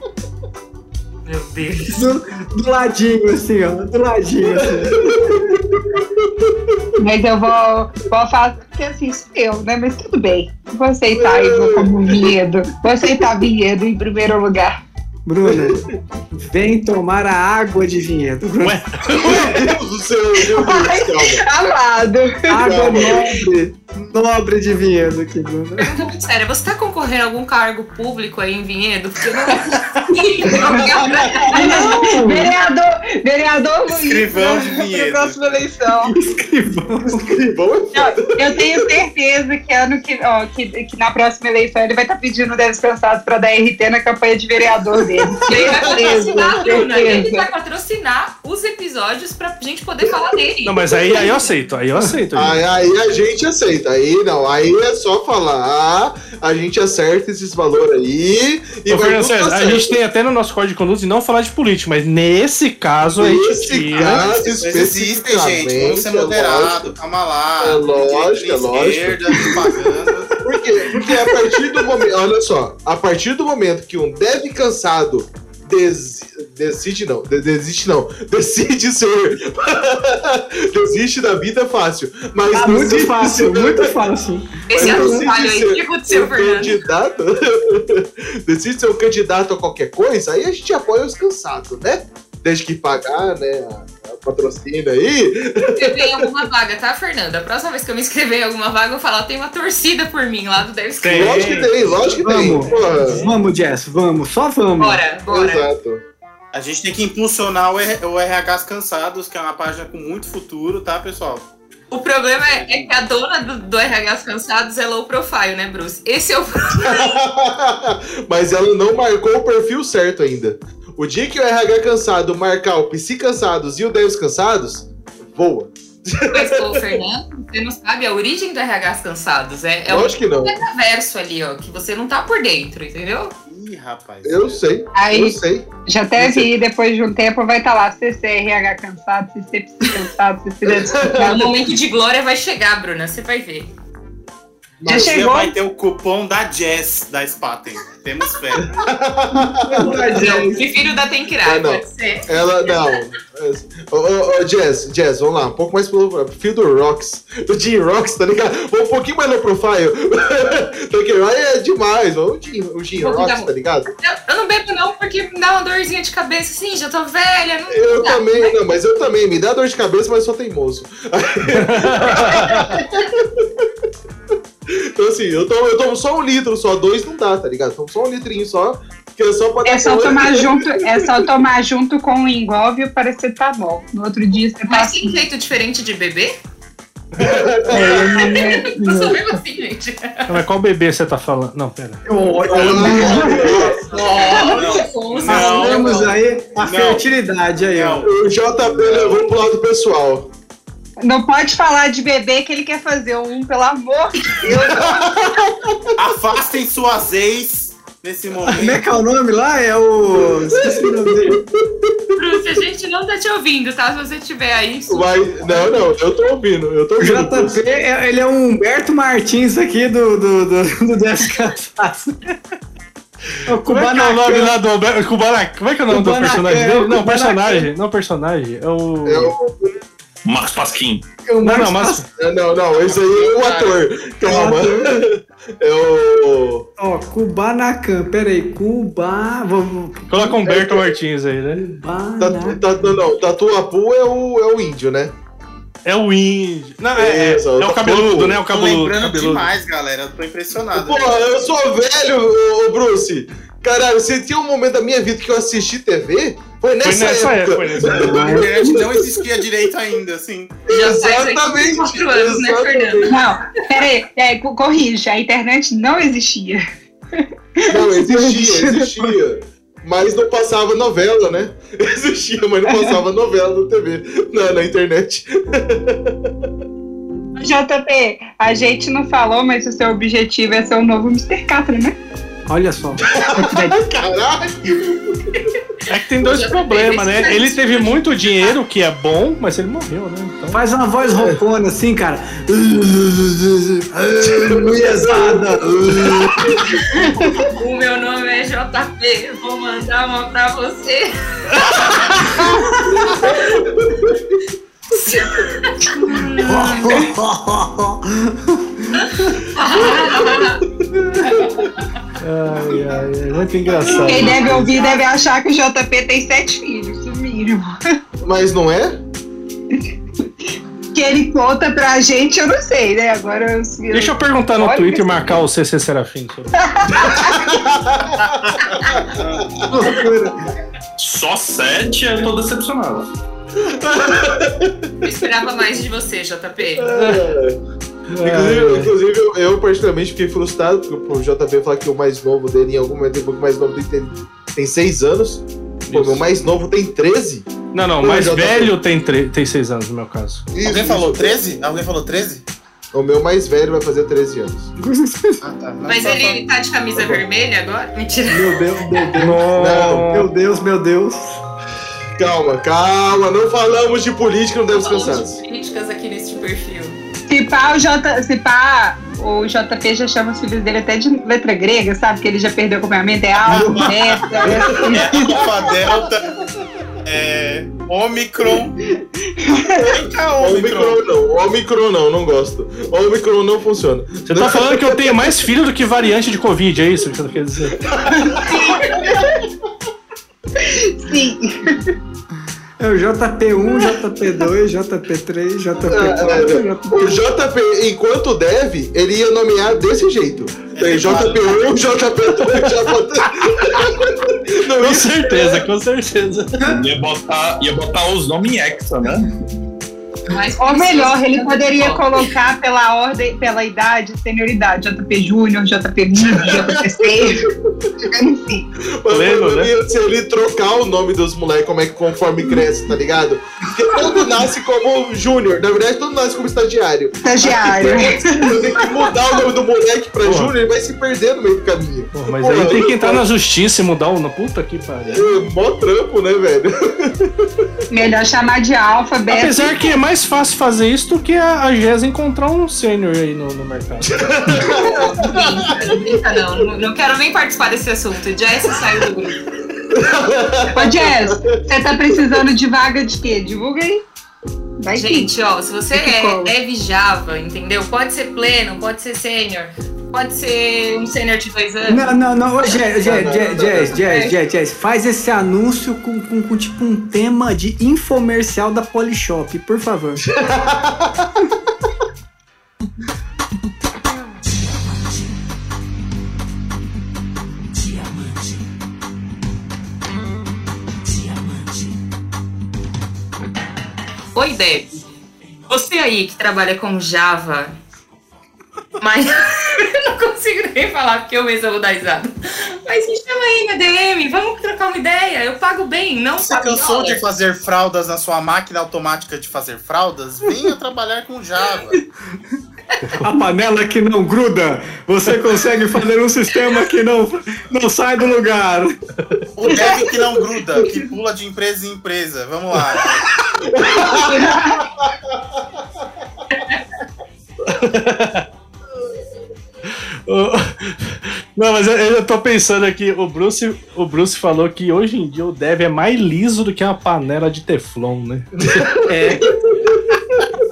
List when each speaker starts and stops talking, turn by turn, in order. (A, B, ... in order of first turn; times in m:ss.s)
0:01.2-0:02.0 A
0:01.9-0:05.5 B
0:04.5-0:06.9 C
0:07.0-0:14.7 D
0:11.1-0:12.4 C
0:15.2-0:15.8 B
0:15.4-0:16.0 C
0:16.4-0:19.4 B
0:18.6-0:19.5 E
0:19.1-0:21.4 C
0:20.4-0:23.3 D
0:22.5-0:25.9 B
0:22.6-0:23.2 C
0:25.8-0:31.9 A
0:30.1-0:36.1 D
0:31.4-0:32.5 B
0:33.9-0:35.7 F
0:36.1-0:37.4 B
0:37.1-0:38.9 C
0:37.9-0:47.4 D
0:45.4-0:51.3 A
0:45.5-0:46.6 C
0:50.6-0:52.6 E
0:52.3-0:59.9 C
0:58.9-1:04.3 E
1:03.2-1:06.9 C
1:03.9-1:10.4 F
1:07.6-1:09.8 C
1:10.4-1:23.9 C
1:22.5-1:25.2 B
1:24.7-1:26.8 A
1:24.7-1:36.3 C
1:35.7-1:41.5 A
1:41.0-1:42.5 E
1:41.1-1:43.2 C
1:42.2-1:45.0 B
1:44.8-1:45.7 A
1:45.3-1:46.0 C
1:46.5-1:51.5 F
1:51.9-1:57.1 A
1:52.4-1:53.0 F
1:56.8-2:07.0 C
2:06.3-2:13.3 A
2:09.9-2:10.6 C
2:13.5-2:14.6 F
2:14.2-2:16.5 C
2:14.9-2:21.4 D
2:20.6-2:21.5 C
2:21.2-2:23.7 A
2:24.8-2:25.2 C
2:24.8-2:25.5 D
2:25.0-2:28.8 F
2:28.6-2:30.3 C
2:29.6-2:30.7 B
2:30.1-2:33.0 A
2:31.4-2:43.9 C
2:43.0-2:48.6 A
2:47.7-2:53.6 C
2:51.5-2:52.8 E
2:54.7-3:01.3 C
2:59.6-3:05.2 D
3:04.7-3:06.4 A
3:07.2-3:07.5 E
3:07.2-3:08.4 C
3:07.7-3:09.2 D
3:08.0-3:10.4 A
3:10.3-3:12.0 E
3:12.0-3:13.6 B
3:12.5-3:14.1 C
3:12.8-3:14.8 D
3:13.9-3:16.2 A
3:14.0-3:17.1 F
3:15.3-3:18.0 B
3:17.7-3:19.3 F
3:18.0-3:20.3 C
3:21.0-3:25.3 D
3:24.4-3:25.9 C
3:26.0-3:28.8 F
3:28.5-3:31.4 B
3:30.5-3:32.1 C
3:32.1-3:35.1 A
3:34.9-3:37.6 C
3:37.0-3:42.3 B
3:43.4-3:44.6 B
3:43.6-3:49.3 E
3:45.9-3:47.7 B
3:49.0-3:49.8 C
3:50.2-3:51.0 G
3:51.2-3:52.0 B
3:51.4-3:52.0 E
3:52.2-3:56.7 C
3:52.7-3:53.8 F
3:54.2-3:55.0 B
3:56.8-4:00.4 B
4:00.1-4:01.6 E
4:00.4-4:00.9 C
4:01.6-4:03.0 B
4:02.2-4:05.1 C
4:05.8-4:09.5 E
4:07.0-4:08.5 C
4:08.4-4:11.2 F
4:10.7-4:19.2 C
4:16.8-4:18.4 E
4:18.0-4:18.6 B
4:18.1-4:20.6 F
4:20.7-4:23.1 C
4:20.7-4:23.2 A
4:23.0-4:26.6 D
4:27.2-4:28.9 D
4:27.7-4:36.3 C
4:37.4-4:42.0 D
4:42.5-4:43.8 B
4:43.1-4:45.4 C
4:45.9-4:50.6 E
4:46.2-4:48.5 A
4:50.5-4:57.1 B
4:54.2-4:56.8 C
4:57.5-5:02.5 A
5:02.4-5:03.0 B
5:03.2-5:03.6 A
5:03.3-5:04.1 C
5:04.9-5:07.0 A
5:06.1-5:07.1 E
5:06.4-5:09.4 B
5:09.5-5:10.6 A
5:09.7-5:10.6 C
5:12.2-5:14.8 E
5:13.3-5:14.6 B
5:14.0-5:17.9 D
5:18.2-5:19.0 C
5:19.7-5:20.3 D
5:20.9-5:25.4 D
5:23.9-5:26.6 E
5:26.6-5:27.5 D
5:26.9-5:29.2 C
5:28.2-5:28.6 F
5:29.6-5:30.5 B
5:31.0-5:33.1 G
5:33.6-5:34.9 C
5:35.0-5:36.9 A
5:36.8-5:37.6 C
5:36.9-5:37.3 E
5:38.1-5:38.9 E
5:38.2-5:47.5 C
5:45.9-5:46.2 F
5:47.7-5:50.5 E
5:48.0-5:48.7 C
5:50.5-5:51.4 C
5:50.5-5:52.4 F
5:52.9-5:54.7 C
5:54.8-5:55.4 B
5:55.4-5:56.4 F
5:55.9-5:59.1 A
5:58.3-6:01.4 B
5:59.2-6:00.3 E
5:59.6-6:00.1 C
6:02.2-6:05.4 C
6:04.7-6:07.0 A
6:07.3-6:15.4 D
6:13.4-6:16.4 F
6:13.5-6:14.6 B
6:14.5-6:16.0 C
6:17.0-6:18.7 F
6:19.2-6:19.8 D
6:19.8-6:25.3 C
6:20.0-6:21.0 F
6:24.2-6:27.8 E
6:27.8-6:28.8 C
6:28.1-6:29.4 D
6:30.6-6:31.9 D
6:32.8-6:37.0 B
6:35.9-6:45.6 C
6:40.7-6:41.7 F
6:44.8-6:46.6 E
6:46.6-6:49.3 G
6:50.3-6:52.3 A
6:50.6-6:57.5 D
6:56.3-6:57.9 C
6:58.0-6:58.7 D
6:59.0-7:13.2 C
6:59.1-6:59.7 E
7:07.2-7:08.9 D
7:10.2-7:10.5 E
7:12.1-7:15.3 E
7:15.1-7:17.6 C
7:17.9-7:20.0 D
7:19.3-7:24.7 E
7:24.1-7:26.2 C
7:24.8-7:29.4 A
7:29.9-7:32.4 C
7:30.7-7:34.0 D
7:34.8-7:35.3 D
7:34.9-7:42.0 A
7:35.9-7:36.5 D
7:41.9-7:50.3 B
7:43.0-7:44.0 C
7:44.0-7:44.3 A
7:50.3-7:51.4 C
8:04.3-8:05.0 A
8:05.7-8:07.7 A
8:09.0-8:17.2 A
8:16.4-8:22.0 F
8:23.0-8:23.3 E
8:23.2-8:28.9 B
8:29.6-8:33.2 F
8:33.7-8:35.6 C
8:34.1-8:34.8 D
8:37.6-8:38.4 E
8:39.9-8:48.9 E
8:48.6-8:50.4 C
8:49.1-8:49.5 B